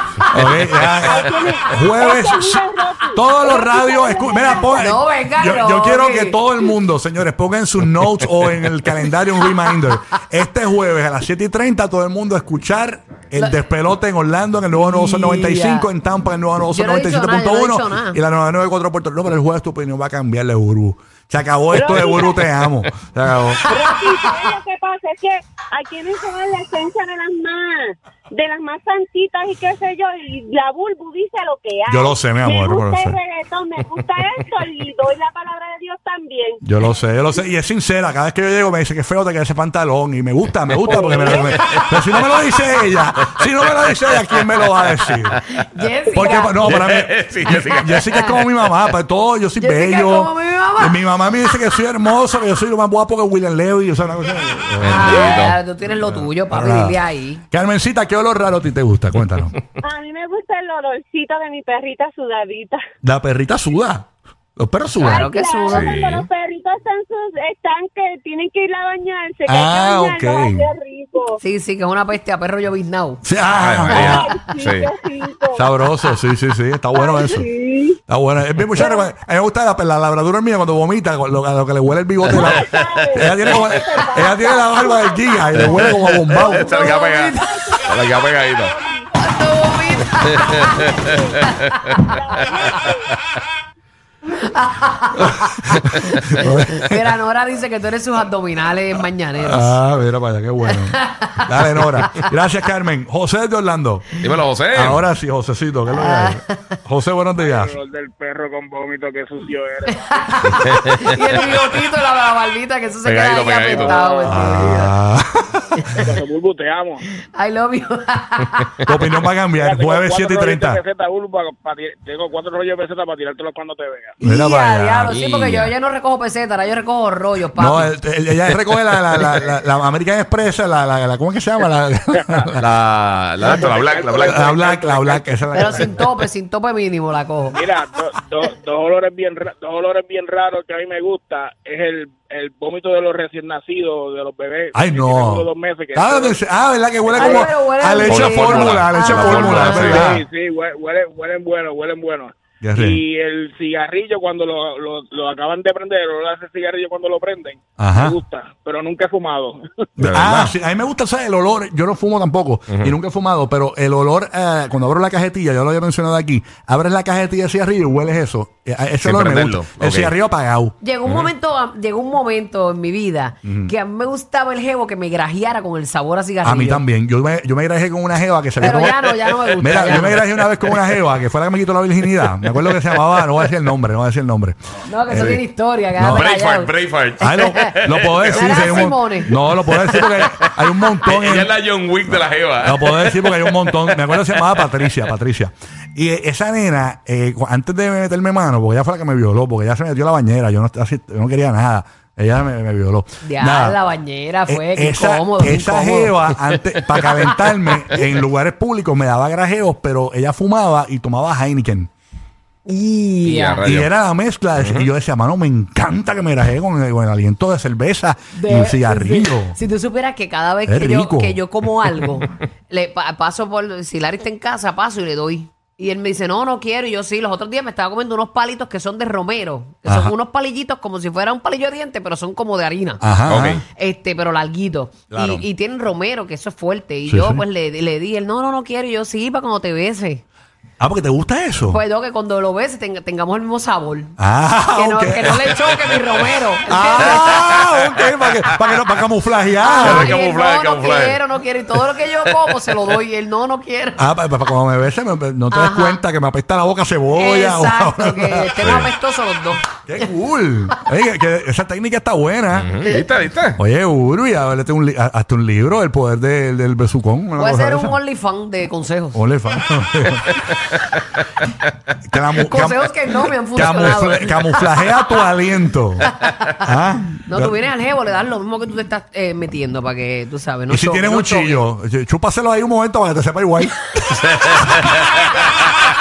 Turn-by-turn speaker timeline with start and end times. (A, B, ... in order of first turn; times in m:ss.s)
0:00.3-0:23.7 A
0:00.7-0:04.8 B
0:04.8-0:06.4 C
0:14.7-0:15.9 C
0:16.7-0:18.2 C
0:21.7-0:22.4 B
0:23.6-0:36.6 B
0:31.9-0:33.2 A
0:36.6-0:45.4 A
0:40.7-0:42.5 D
0:40.9-0:41.9 B
0:43.2-0:45.6 D
0:45.6-0:46.5 C
0:46.1-0:46.6 B
0:46.1-0:55.4 A
0:46.6-0:48.9 D
0:49.6-0:51.0 C
0:54.8-0:55.6 D
0:54.9-0:57.4 C
0:55.9-0:57.0 A
0:57.5-0:59.6 A
0:59.8-1:02.8 B
1:03.0-1:05.3 A
1:05.0-1:11.4 B
1:05.2-1:05.7 C
1:05.7-1:06.3 D
1:09.4-1:10.7 A
1:11.4-1:13.2 C
1:13.2-1:14.3 A
1:13.5-1:14.9 D
1:14.0-1:15.6 B
1:15.5-1:17.5 A
1:16.9-1:18.0 B
1:18.1-1:27.0 A
1:18.8-1:19.0 B
1:22.3-1:31.5 B
1:22.3-1:22.7 D
1:23.5-1:23.7 D
1:25.6-1:28.7 D
1:27.2-1:27.4 C
1:29.2-1:30.8 C
1:30.1-1:33.1 D
1:32.0-1:33.1 B
1:34.3-1:35.8 C
1:35.2-1:37.0 A
1:36.4-1:39.8 C
1:39.4-1:44.2 A
1:40.7-1:41.8 C
1:44.2-1:45.0 D
1:44.7-1:47.7 A
1:45.9-1:46.7 C
1:47.4-1:50.7 E
1:49.9-1:54.9 C
1:50.4-1:51.5 D
1:53.0-1:54.1 D
1:53.7-1:54.5 E
1:54.2-1:56.0 A
1:55.9-1:57.0 E
1:57.3-1:58.9 C
1:58.8-2:00.8 A
1:59.5-2:04.1 E
2:04.2-2:07.9 C
2:04.2-2:05.2 A
2:05.1-2:05.7 D
2:07.5-2:12.6 A
2:12.1-2:12.5 E
2:12.6-2:14.6 D
2:13.4-2:15.8 E
2:14.2-2:16.2 A
2:15.5-2:17.6 C
2:17.5-2:26.4 E
2:24.7-2:30.2 A
2:27.1-2:27.5 E
2:27.2-2:29.7 C
2:28.0-2:30.1 D
2:29.3-2:39.6 E
2:32.6-2:33.0 A
2:37.8-2:38.2 A
2:40.0-2:50.7 A
2:40.0-2:40.5 D
2:42.7-2:43.0 D
2:49.0-2:50.1 D
2:50.8-2:56.8 C
2:51.0-2:51.3 D
2:53.4-2:53.7 A
2:56.4-3:04.6 A
2:58.6-3:00.2 C
2:58.6-3:01.0 D
3:02.1-3:03.4 D
3:04.9-3:06.7 C
3:05.1-3:05.4 A
3:05.1-3:05.4 D
3:06.0-3:06.3 A
3:06.1-3:14.9 D
3:07.2-3:11.5 A
3:08.3-3:09.3 C
3:12.1-3:23.8 A
3:23.2-3:26.1 C
3:24.5-3:31.9 A
3:26.9-3:27.3 D
3:32.6-3:33.6 C
3:33.2-3:33.9 D
3:33.6-3:39.6 A
3:34.6-3:34.9 D
3:38.3-3:53.0 C
3:40.6-3:41.4 A
3:49.8-3:50.1 A
3:53.0-3:53.6 A
3:53.3-3:53.6 D
3:53.7-4:00.2 C
3:55.1-3:55.4 A
3:57.1-3:57.4 A
4:00.8-4:01.8 A
4:01.7-4:04.1 C
4:04.2-4:05.8 A
4:04.7-4:07.7 C
4:06.6-4:10.2 A
4:07.0-4:07.7 D
4:09.6-4:14.0 C
4:09.8-4:11.2 D
4:11.8-4:12.9 D
4:14.0-4:18.7 A
4:15.5-4:16.0 C
4:17.1-4:19.7 C
4:18.6-4:18.9 D
4:19.8-4:22.9 A
4:22.5-4:23.6 D
4:23.6-4:28.0 A
4:27.4-4:29.2 C
4:29.1-4:30.3 A
4:32.0-4:32.9 A
4:32.4-4:35.0 C
4:33.5-4:37.6 A
4:36.0-4:36.5 C
4:37.3-4:41.6 C
4:40.7-4:44.9 A